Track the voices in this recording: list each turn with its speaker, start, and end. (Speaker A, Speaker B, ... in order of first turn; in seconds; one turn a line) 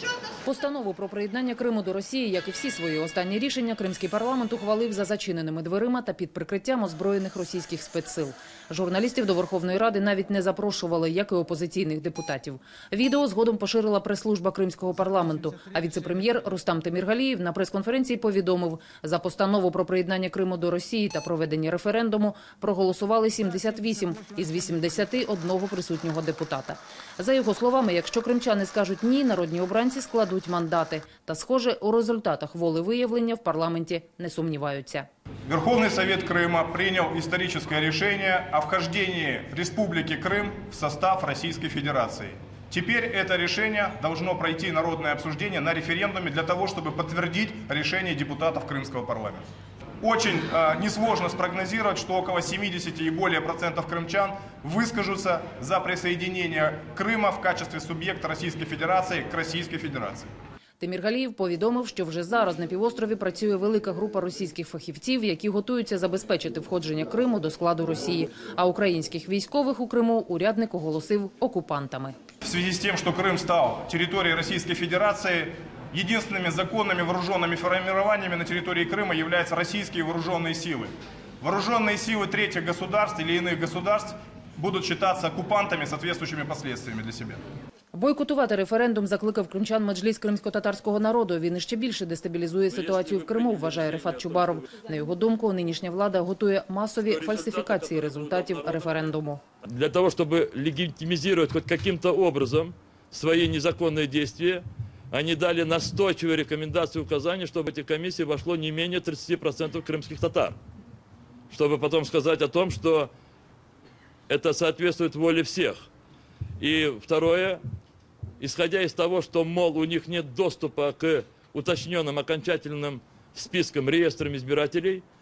Speaker A: 0.4-35.1
Speaker B: 35.5-49.5
Speaker B: 50.0-60.3
Speaker A: 60.8-72.2
Speaker B: 72.4-87.4
Speaker A: 87.9-99.4
Speaker C: 92.7-94.6
Speaker C: 97.1-99.1
Speaker C: 99.6-110.6
Speaker C: 111.5-113.1
Speaker C: 114.3-115.9
Speaker C: 116.6-117.6
Speaker C: 118.4-125.0